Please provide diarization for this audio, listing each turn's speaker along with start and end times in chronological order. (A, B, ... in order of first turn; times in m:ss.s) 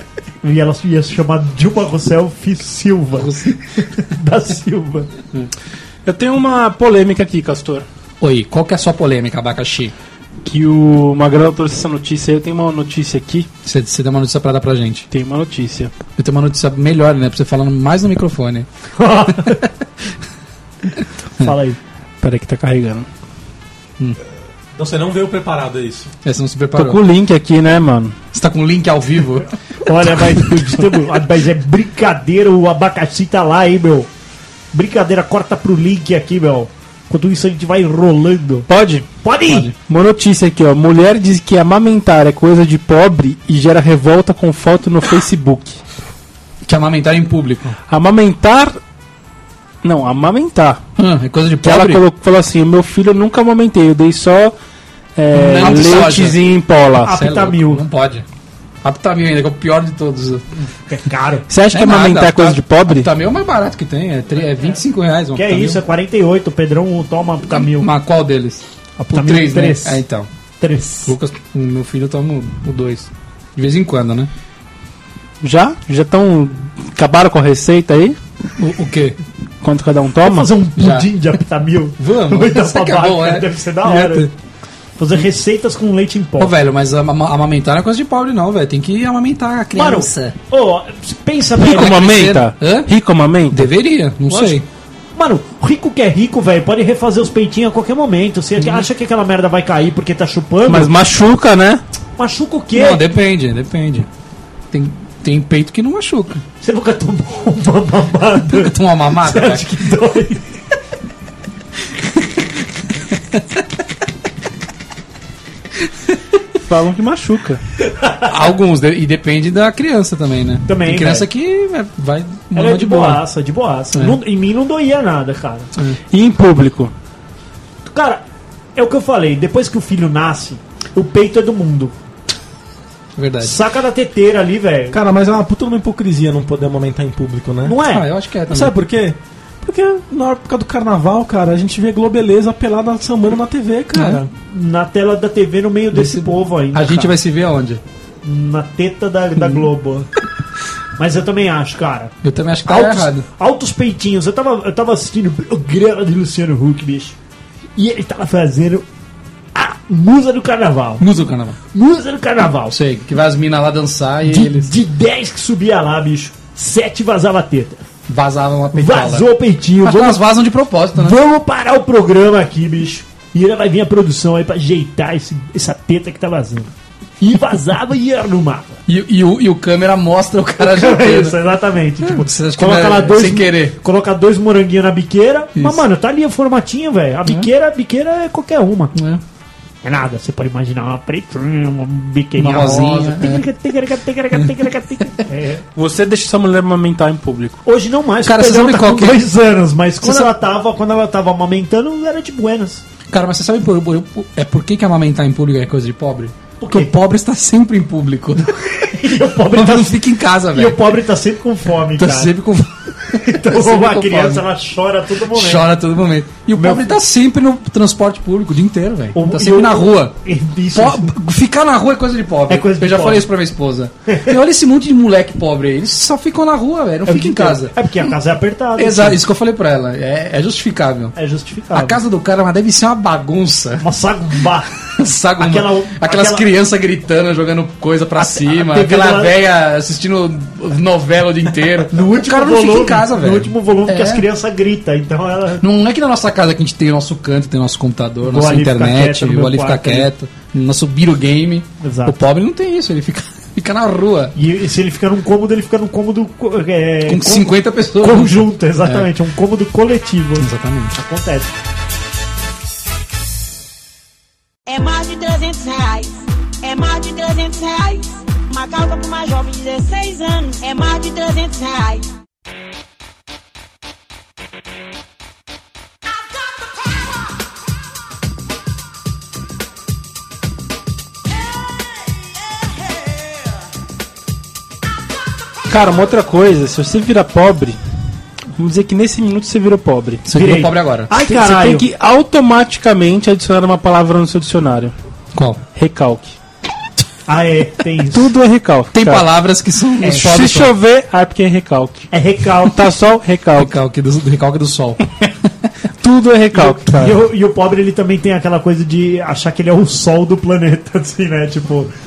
0:00.4-0:05.1 A
0:03.2-0:03.6 B
0:06.0-0:07.9 C
0:08.2-0:09.9 B
0:10.4-0:13.5 C
0:13.6-0:15.1 B
0:15.1-0:15.9 C
0:16.2-0:18.7 B
0:19.0-0:19.7 A
0:19.3-0:19.6 B
0:21.4-0:21.8 A
0:22.2-0:23.1 C
0:24.8-0:26.1 D
0:26.2-0:27.0 B
0:26.8-0:28.2 C
0:28.3-0:29.5 B
0:29.8-0:34.1 A
0:30.2-0:30.8 B
0:34.7-0:38.7 A
0:38.7-0:39.1 C
0:39.2-0:39.7 A
0:39.5-0:39.7 B
0:39.8-0:45.8 C
0:46.7-0:47.8 B
0:47.9-0:48.8 C
0:49.8-0:50.8 C
0:51.0-0:52.0 B
0:51.6-0:54.6 C
0:55.2-0:57.1 C
0:55.3-0:56.4 B
0:55.6-0:56.0 A
0:57.0-0:57.8 A
0:57.0-0:58.2 B
0:58.8-1:00.4 B
1:00.8-1:01.5 A
1:01.5-1:03.1 C
1:01.7-1:05.8 B
1:05.4-1:07.9 A
1:07.5-1:08.6 B
1:09.0-1:10.0 A
1:09.1-1:10.3 B
1:10.6-1:11.1 A
1:11.1-1:14.3 B
1:15.4-1:18.2 C
1:18.6-1:19.2 B
1:19.6-1:20.5 C
1:20.2-1:24.3 A
1:20.8-1:21.1 B
1:22.0-1:24.3 B
1:25.0-1:26.5 A
1:26.4-1:30.4 B
1:29.8-1:32.2 A
1:31.6-1:33.7 C
1:31.6-1:32.9 B
1:33.5-1:34.6 B
1:34.3-1:34.6 A
1:35.2-1:40.9 A
1:38.6-1:38.8 B
1:40.7-1:41.8 C
1:42.2-1:43.0 A
1:42.7-1:44.1 B
1:44.7-1:46.4 B
1:46.6-1:50.4 A
1:48.6-1:49.7 B
1:56.6-1:57.6 C
1:58.2-2:03.2 B
2:00.7-2:01.2 A
2:02.5-2:05.7 A
2:06.1-2:06.9 C
2:07.9-2:08.2 A
2:08.8-2:11.9 A
2:13.2-2:13.6 B
2:13.4-2:15.0 A
2:14.9-2:17.8 D
2:17.7-2:18.1 A
2:17.8-2:18.8 B
2:18.5-2:24.3 D
2:24.0-2:24.2 B
2:24.4-2:27.2 A
2:25.9-2:27.8 B
2:28.2-2:30.1 A
2:31.0-2:32.1 A
2:32.2-2:33.2 B
2:32.7-2:37.2 A
2:37.8-2:38.8 A
2:39.6-2:41.0 A
2:41.0-2:41.6 B
2:41.7-2:42.8 A
2:42.7-2:44.7 B
2:44.2-2:47.8 A
2:48.1-2:49.3 B
2:48.8-2:50.2 A
2:49.8-2:51.2 B
2:51.0-2:58.8 A
2:58.9-3:01.4 B
3:00.6-3:08.9 A
3:02.0-3:03.8 B
3:05.6-3:05.8 B
3:09.0-3:09.2 B
3:09.8-3:15.6 A
3:12.4-3:13.4 B
3:15.8-3:17.6 C
3:17.6-3:22.8 A
3:18.2-3:19.2 B
3:20.0-3:20.3 B
3:23.1-3:28.6 B
3:26.6-3:26.9 A
3:28.6-3:32.3 A
3:29.5-3:30.8 B
3:32.0-3:34.4 B
3:33.1-3:35.7 A
3:35.3-3:40.2 B
3:36.6-3:36.9 A
3:39.2-3:41.1 A
3:40.7-3:47.8 B
3:42.5-3:43.3 A
3:44.1-3:44.4 A
3:47.1-3:49.2 A
3:48.8-3:51.1 B
3:51.2-3:52.0 A
3:51.7-3:53.9 B
3:53.8-3:54.7 A
3:54.9-4:04.2 B
3:55.4-3:56.5 A
3:58.2-3:59.3 A
4:01.9-4:05.6 A
4:05.6-4:14.3 B
4:08.2-4:10.1 A
4:11.8-4:12.2 A
4:14.4-4:21.5 A
4:17.1-4:19.1 B
4:20.4-4:21.0 B
4:24.7-4:32.1 E
4:45.7-4:47.8 C
4:48.6-4:50.2 C
4:50.3-4:51.1 B
4:50.3-4:51.9 A
4:51.2-4:54.9 C
4:55.4-4:55.6 B
4:55.7-4:56.4 C
4:57.3-4:58.3 A
4:58.1-4:59.3 C
4:58.9-5:00.7 B
5:00.0-5:02.1 C
5:02.1-5:02.8 A
5:02.6-5:03.8 C
5:03.6-5:05.3 B
5:06.0-5:07.2 C
5:06.5-5:11.9 A